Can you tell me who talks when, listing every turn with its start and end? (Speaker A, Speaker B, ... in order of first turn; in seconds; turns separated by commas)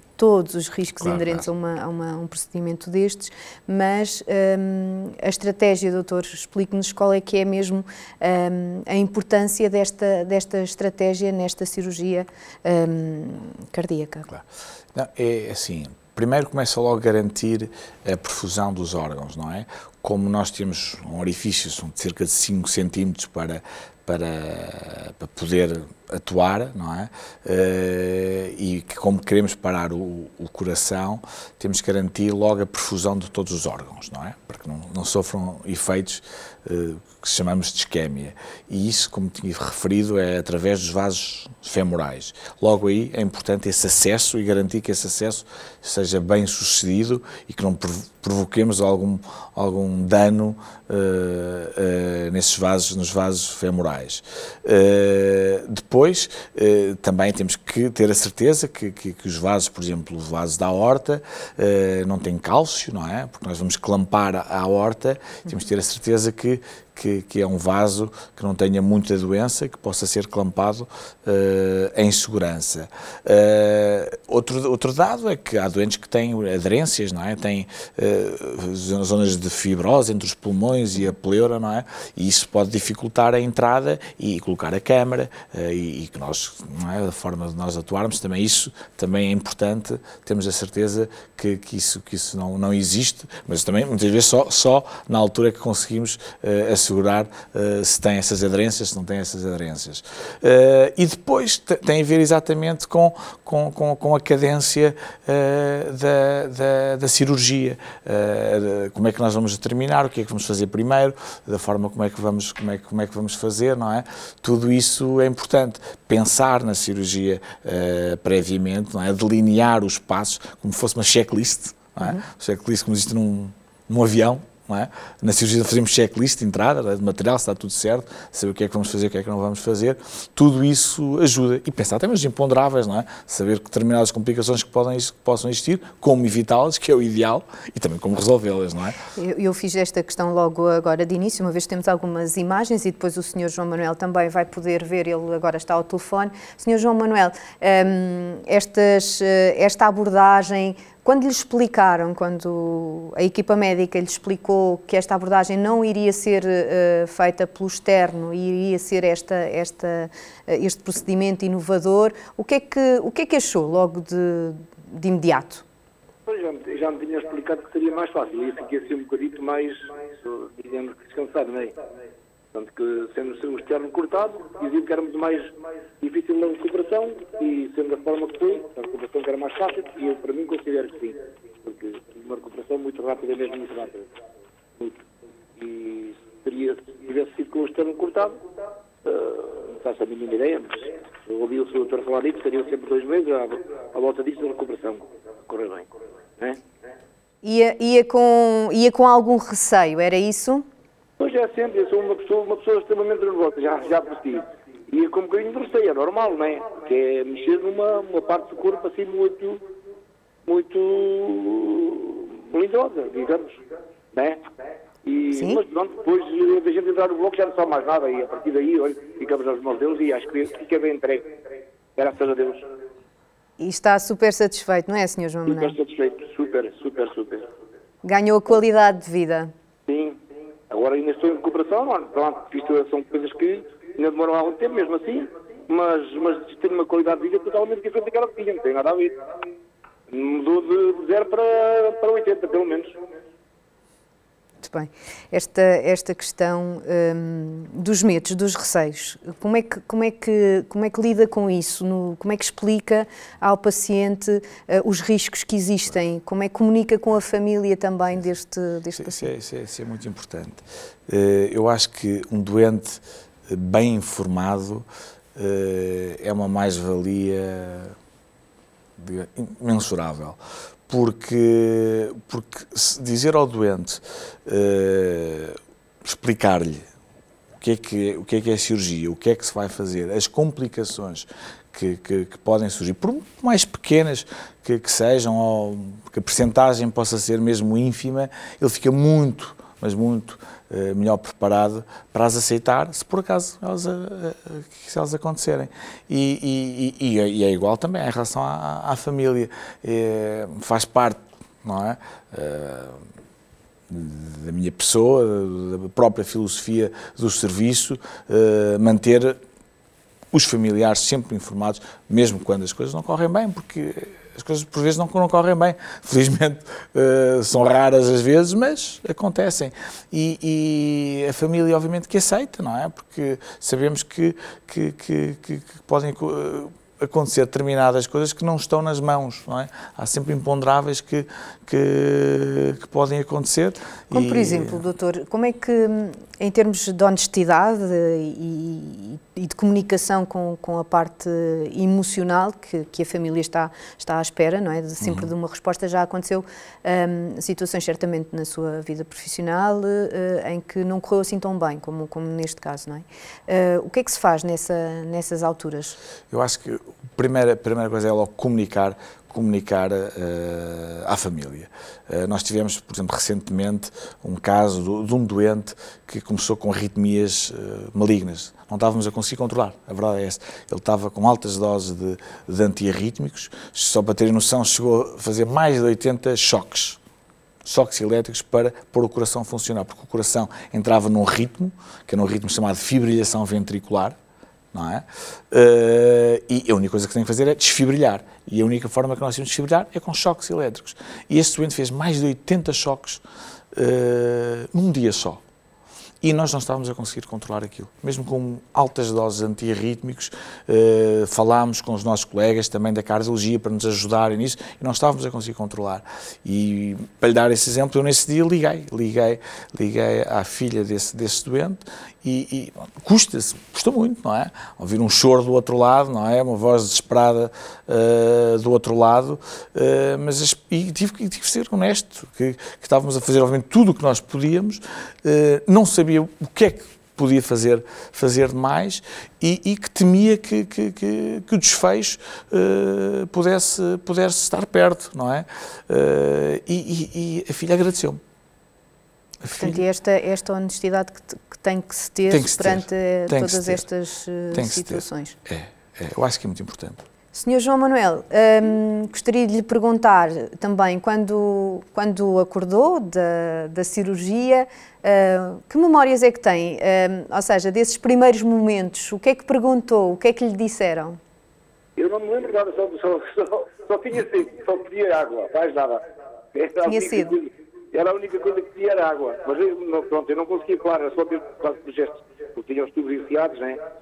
Speaker A: 0.2-14.3, Speaker B: 1.0-1.4, Speaker B: 14.9-138.9, Speaker A: 139.2-165.6, Speaker C: 166.3-171.8, Speaker C: 172.5-184.1, Speaker C: 185.6-188.4, Speaker C: 189.0-196.6, Speaker A: 197.4-200.7, Speaker C: 201.2-209.6, Speaker C: 210.4-213.6, Speaker C: 214.1-214.4, Speaker C: 215.0-221.3, Speaker A: 215.3-215.6, Speaker C: 221.9-222.6, Speaker A: 223.6-225.8, Speaker C: 225.4-227.4, Speaker A: 228.0-229.5, Speaker C: 229.9-230.2, Speaker C: 230.7-239.2, Speaker C: 240.1-242.9, Speaker A: 244.6-259.3, Speaker B: 259.0-267.9, Speaker B: 269.0-276.8, Speaker B: 277.6-303.0, Speaker B: 303.9-309.4, Speaker B: 310.3-334.8, Speaker A: 334.1-356.0, Speaker B: 345.0-345.3, Speaker B: 356.3-377.0, Speaker B: 377.6-384.1, Speaker B: 384.7-393.2, Speaker B: 393.7-395.4, Speaker B: 396.2-438.2, Speaker B: 439.4-439.8, Speaker A: 439.5-445.4, Speaker B: 442.3-443.8, Speaker B: 444.5-447.0, Speaker A: 447.3-461.2, Speaker C: 462.0-466.0, Speaker C: 466.5-473.8, Speaker A: 466.8-467.3